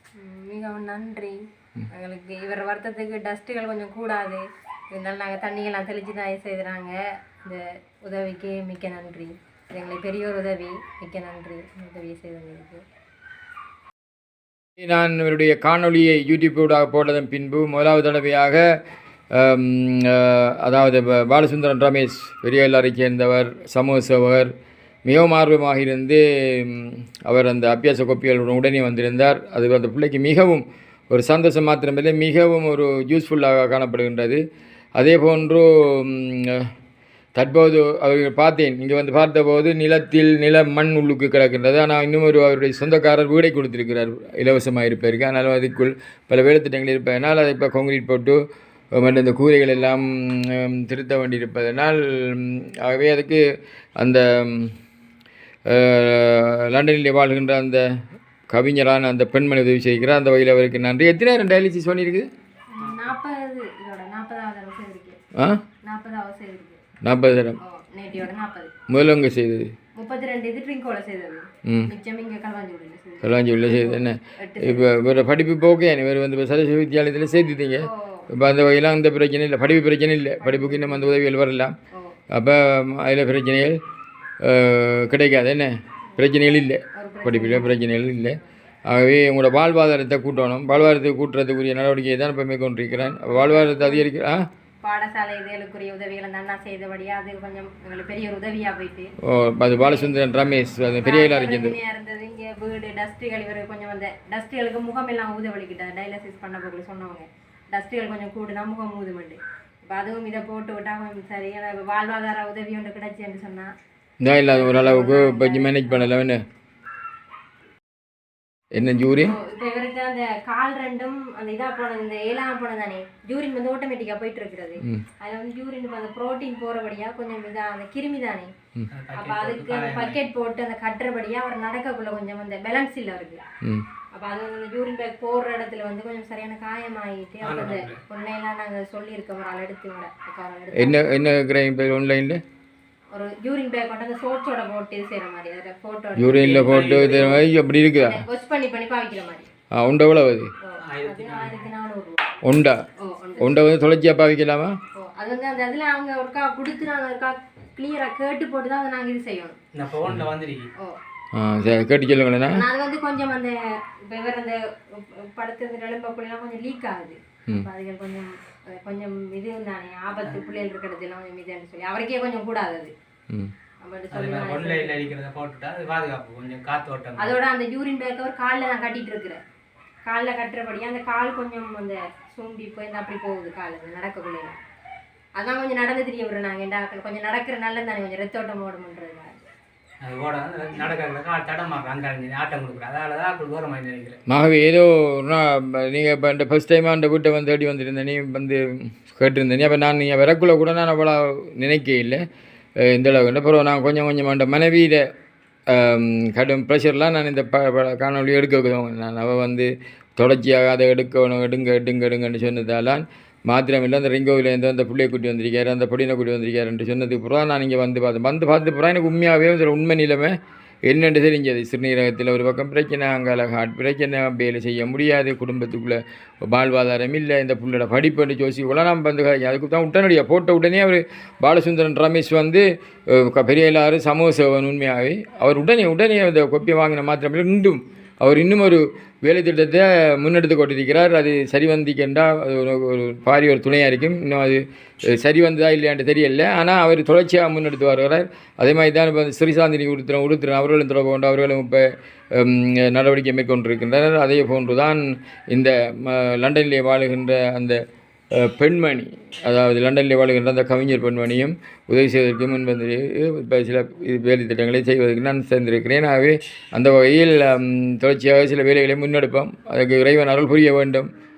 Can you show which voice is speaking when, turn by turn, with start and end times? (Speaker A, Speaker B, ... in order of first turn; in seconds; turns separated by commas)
Speaker A: 0.2-12.8, Speaker B: 14.8-18.8, Speaker B: 19.3-24.5, Speaker B: 25.1-34.4, Speaker B: 35.0-36.7, Speaker B: 37.3-53.4, Speaker B: 54.0-54.8, Speaker B: 55.6-57.9, Speaker B: 58.5-62.3, Speaker A: 62.7-65.2, Speaker B: 65.3-65.6, Speaker A: 65.8-66.8, Speaker B: 67.0-67.6, Speaker A: 67.6-68.7, Speaker B: 68.9-69.7, Speaker A: 70.0-74.9, Speaker B: 71.6-71.9, Speaker B: 73.2-81.8, Speaker A: 77.8-78.3, Speaker A: 80.4-81.2, Speaker B: 82.3-83.8, Speaker B: 84.4-94.5, Speaker A: 86.9-87.8, Speaker A: 93.3-94.1, Speaker A: 94.8-99.1, Speaker B: 99.2-101.8, Speaker A: 99.7-100.2, Speaker A: 101.0-109.4, Speaker A: 109.9-113.7, Speaker B: 114.2-116.4, Speaker A: 114.5-116.1, Speaker B: 118.7-119.3, Speaker A: 119.1-128.5, Speaker C: 128.9-130.2, Speaker A: 129.1-133.4, Speaker A: 134.1-141.2, Speaker C: 137.4-138.0, Speaker B: 140.7-142.4, Speaker A: 143.1-146.8, Speaker B: 146.2-148.2, Speaker C: 146.5-147.4, Speaker A: 148.1-149.5, Speaker B: 149.7-150.5, Speaker A: 150.6-152.2, Speaker C: 150.8-151.7, Speaker B: 152.4-152.8, Speaker A: 153.0-153.7, Speaker B: 153.4-154.8, Speaker A: 154.9-159.6, Speaker C: 159.7-160.7, Speaker B: 161.3-162.6, Speaker A: 162.5-172.9, Speaker A: 173.8-175.1, Speaker C: 174.1-177.3, Speaker A: 177.2-179.4, Speaker A: 180.1-184.6, Speaker A: 185.3-189.4, Speaker C: 190.0-194.2, Speaker B: 194.3-202.2, Speaker B: 202.8-205.1, Speaker B: 205.7-271.1